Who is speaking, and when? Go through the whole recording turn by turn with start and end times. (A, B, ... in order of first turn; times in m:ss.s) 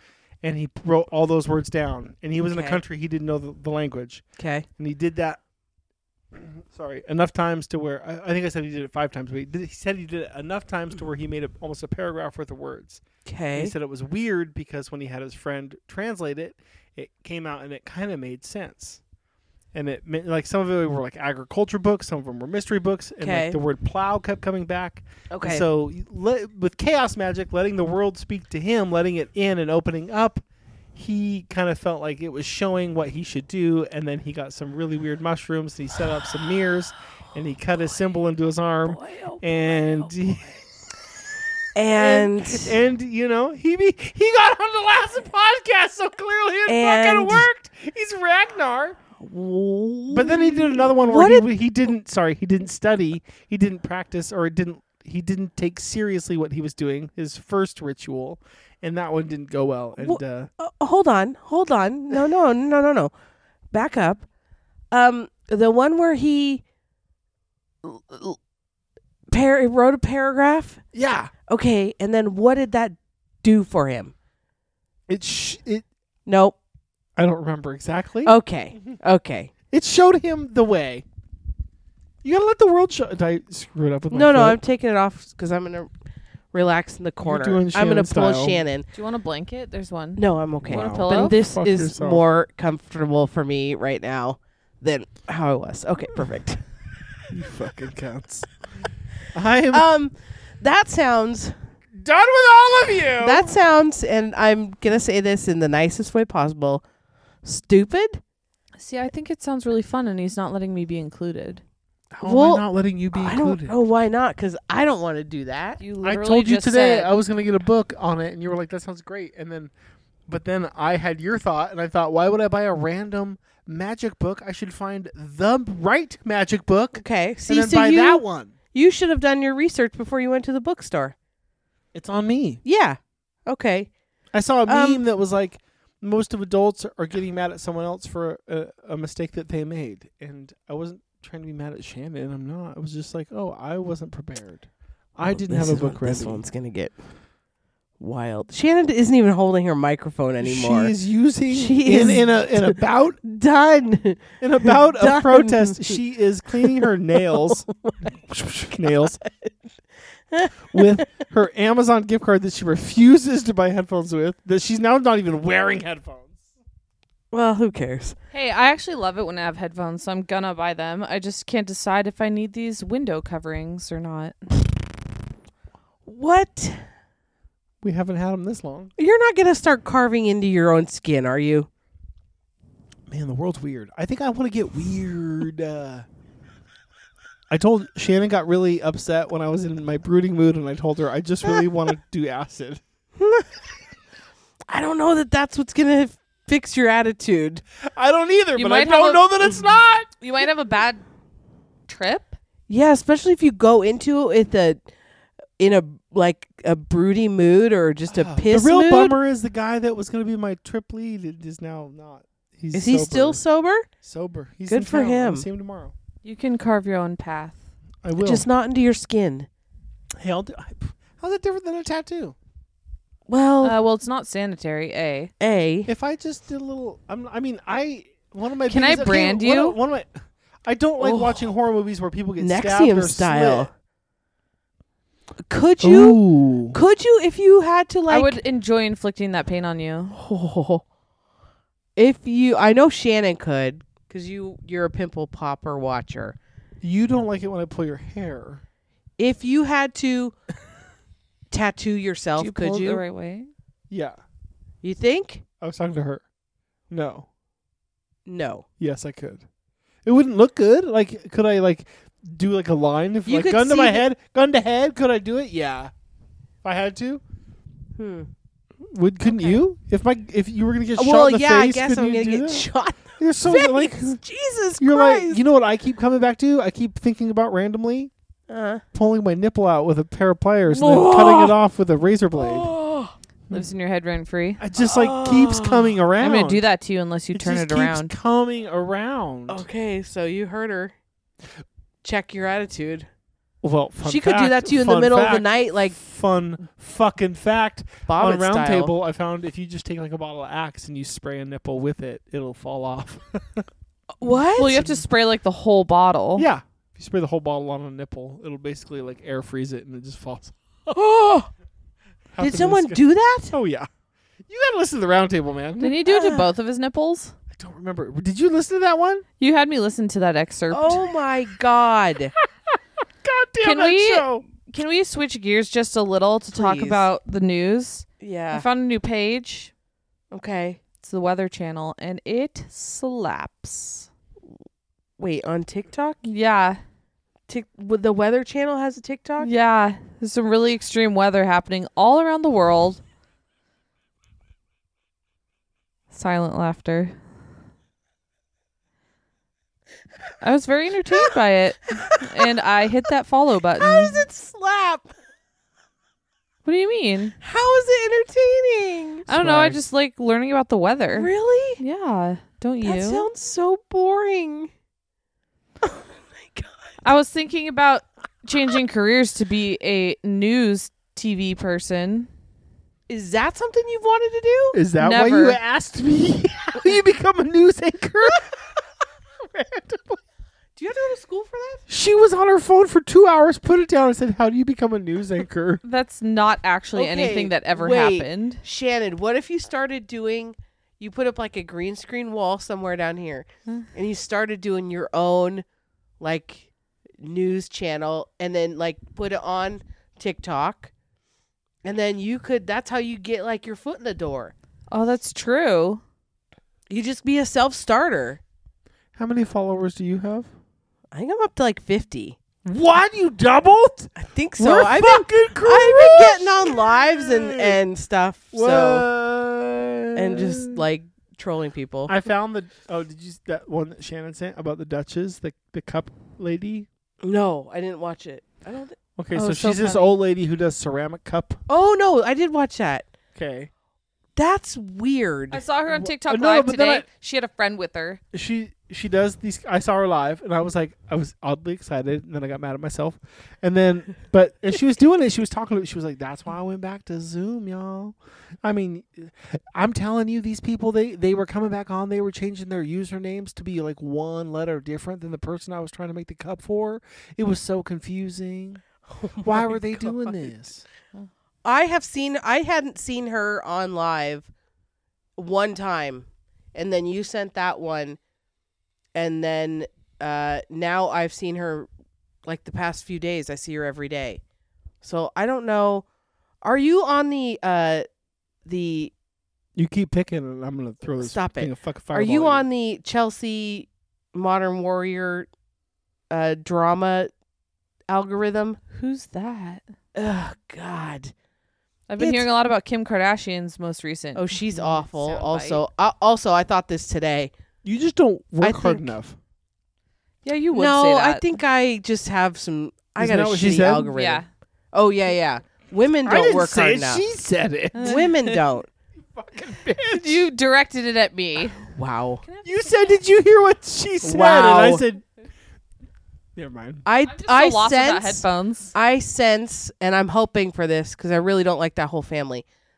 0:00.4-0:04.2 A
0:02.4-0:02.8 B
0:04.4-0:04.7 B
0:04.8-0:05.4 A
0:06.3-0:13.0 A
0:13.3-0:13.7 B
0:13.6-0:19.0 A
0:19.7-0:30.4 A
0:23.2-0:23.6 B
0:25.3-0:25.7 B
0:31.0-0:40.5 A
0:38.9-0:39.4 B
0:41.8-0:42.8 B
0:42.0-0:49.0 A
0:46.7-0:47.5 B
0:49.2-0:51.5 B
0:50.1-1:00.5 A
1:00.0-1:03.1 B
1:03.7-1:04.3 B
1:04.9-1:06.6 B
1:07.8-1:08.4 B
1:09.3-1:10.8 B
1:10.9-1:11.3 A
1:11.5-1:14.1 B
1:15.1-1:15.9 A
1:16.3-1:16.6 B
1:17.2-1:18.4 A
1:18.2-1:19.5 B
1:19.7-1:21.0 A
1:22.2-1:24.6 A
1:24.1-1:25.9 B
1:26.5-1:28.9 B
1:27.2-1:28.6 A
1:28.9-1:31.4 C
1:30.2-1:36.6 B
1:30.6-1:32.2 A
1:37.3-1:38.5 A
1:39.3-1:39.9 A
1:39.7-1:41.6 B
1:41.9-1:43.5 A
1:43.2-1:46.8 B
1:47.4-1:48.2 B
1:48.8-1:51.6 C
1:52.2-1:53.8 A
1:52.2-1:55.8 B
1:55.8-1:57.2 C
1:56.0-1:59.7 A
2:00.3-2:08.5 A
2:06.9-2:11.2 B
2:11.9-2:12.6 A
2:12.6-2:13.9 B
2:14.3-2:26.4 A
2:14.7-2:15.0 B
2:25.3-2:27.0 B
2:28.0-2:30.9 B
2:30.4-2:33.2 A
2:31.5-2:36.0 B
2:34.4-2:39.2 A
2:36.6-2:38.1 B
2:38.8-2:39.6 B
2:40.3-2:41.1 B
2:40.7-2:46.4 A
2:47.3-2:48.2 B
2:48.3-2:54.5 C
2:56.1-2:56.9 B
2:57.8-2:58.9 A
2:59.0-3:01.7 B
3:03.1-3:06.1 A
3:07.5-3:12.8 A
3:13.2-3:13.5 B
3:14.7-3:17.6 B
3:17.8-3:20.1 A
3:18.6-3:19.5 C
3:20.2-3:21.0 C
3:21.9-3:22.3 C
3:22.7-3:24.8 B
3:25.6-3:29.2 B
3:28.1-3:33.4 A
3:32.7-3:33.9 B
3:34.0-3:35.9 A
3:34.7-3:35.5 B
3:36.2-3:37.6 C
3:38.0-3:38.4 A
3:38.2-3:39.5 B
3:40.2-3:42.4 A
3:43.3-3:43.8 B
3:43.6-3:45.3 C
3:45.4-3:45.9 B
3:45.9-3:50.1 A
3:48.7-3:49.8 C
3:50.6-3:53.7 A
3:51.0-3:51.4 B
3:52.4-3:53.7 B
3:55.5-3:58.4 B
3:55.8-3:56.8 A
3:58.1-4:00.2 C
4:00.1-4:00.8 B
4:02.0-4:06.4 B
4:06.8-4:08.6 A
4:09.2-4:10.4 B
4:11.5-4:13.0 B
4:12.4-4:13.5 C
4:13.9-4:14.2 A
4:14.8-4:15.4 B
4:15.6-4:16.2 A
4:16.9-4:17.3 A
4:18.3-4:18.6 B
4:18.8-4:19.4 A
4:20.0-4:25.9 A
4:23.3-4:24.0 B
4:26.6-4:27.2 A
4:28.0-4:28.3 B
4:28.9-4:34.2 A
4:29.3-4:29.6 B
4:31.0-4:35.4 B
4:34.8-4:38.1 A
4:38.5-4:38.8 B
4:38.9-4:42.7 A
4:40.7-4:41.5 B
4:42.3-4:43.2 B
4:43.5-4:44.6 C
4:44.6-4:46.6 A
4:44.8-4:46.0 B
4:46.2-4:48.1 C
4:47.3-4:49.6 A
4:49.5-4:51.0 B
4:52.0-4:53.1 B
4:53.6-5:03.7 A
4:54.0-4:56.0 B
4:58.1-4:58.9 B
5:04.2-5:04.9 B
5:04.6-5:06.5 C
5:06.4-5:10.6 A
5:10.9-5:11.5 B
5:12.3-5:13.9 A
5:12.4-5:13.5 B
5:14.5-5:16.0 A
5:15.8-5:17.4 C
5:16.0-5:16.5 B
5:17.5-5:19.2 A
5:19.4-5:21.1 C
5:20.7-5:22.3 B
5:22.7-5:24.4 A
5:23.6-5:29.7 C
5:26.5-5:27.1 B
5:28.2-5:28.7 B
5:30.3-5:30.8 B
5:31.0-5:34.1 C
5:35.2-5:36.2 B
5:36.2-5:36.8 C
5:37.5-5:39.5 B
5:39.4-5:43.0 C
5:46.1-5:47.2 C
5:50.4-5:54.2 C
5:52.0-5:52.5 B
5:53.8-5:55.1 B
5:56.6-5:57.4 C
5:57.4-5:59.3 B
5:59.3-6:03.3 C
5:59.3-5:59.8 A
6:01.1-6:01.8 B
6:02.8-6:04.7 B
6:05.8-6:06.9 B
6:07.0-6:12.3 C
6:13.1-6:14.8 B
6:14.7-6:18.7 A
6:15.0-6:15.6 C
6:19.4-6:20.2 A
6:20.8-6:21.8 B
6:21.9-6:25.8 A
6:25.8-6:28.6 C
6:26.9-6:35.6 B
6:36.2-6:40.9 B
6:41.8-6:44.5 B
6:44.9-6:46.0 C
6:46.9-6:48.4 B
6:49.2-6:50.5 A
6:51.1-6:52.4 B
6:52.6-6:57.8 A
6:54.2-6:59.1 B
6:58.5-7:00.8 A
7:00.2-7:02.1 B
7:02.1-7:06.9 A
7:07.2-7:09.0 B
7:09.2-7:11.6 A
7:09.4-7:10.1 C
7:11.7-7:13.1 B
7:13.4-7:13.7 A
7:14.4-7:15.6 B
7:15.5-7:18.2 C
7:15.9-7:17.0 A
7:18.3-7:38.8 A
7:39.2-7:40.5 B
7:39.4-7:40.8 A
7:41.6-7:44.5 B
7:45.4-7:48.2 B
7:49.2-7:51.9 B
7:52.4-7:54.4 B
7:55.0-7:56.1 B
7:56.6-7:58.1 B
7:58.6-7:59.1 B
7:59.8-8:02.6 A
8:01.2-8:05.5 B
8:06.3-8:07.3 B
8:08.1-8:08.8 B
8:08.9-8:09.8 C
8:10.2-8:11.3 B
8:12.1-8:15.8 C
8:12.2-8:12.5 B
8:14.4-8:17.5 B
8:17.8-8:19.4 A
8:18.6-8:19.2 B
8:20.4-8:21.4 C
8:20.7-8:27.2 B
8:23.2-8:24.1 A
8:24.1-8:24.4 C
8:26.2-8:28.3 A
8:28.0-8:28.6 C
8:28.0-8:28.9 B
8:29.2-8:30.5 A
8:30.1-8:31.9 C
8:31.9-8:32.4 B
8:32.4-8:32.9 C
8:32.6-8:35.3 A
8:34.2-8:35.0 B
8:36.6-8:37.0 A
8:37.0-8:42.6 B
8:37.3-8:38.9 C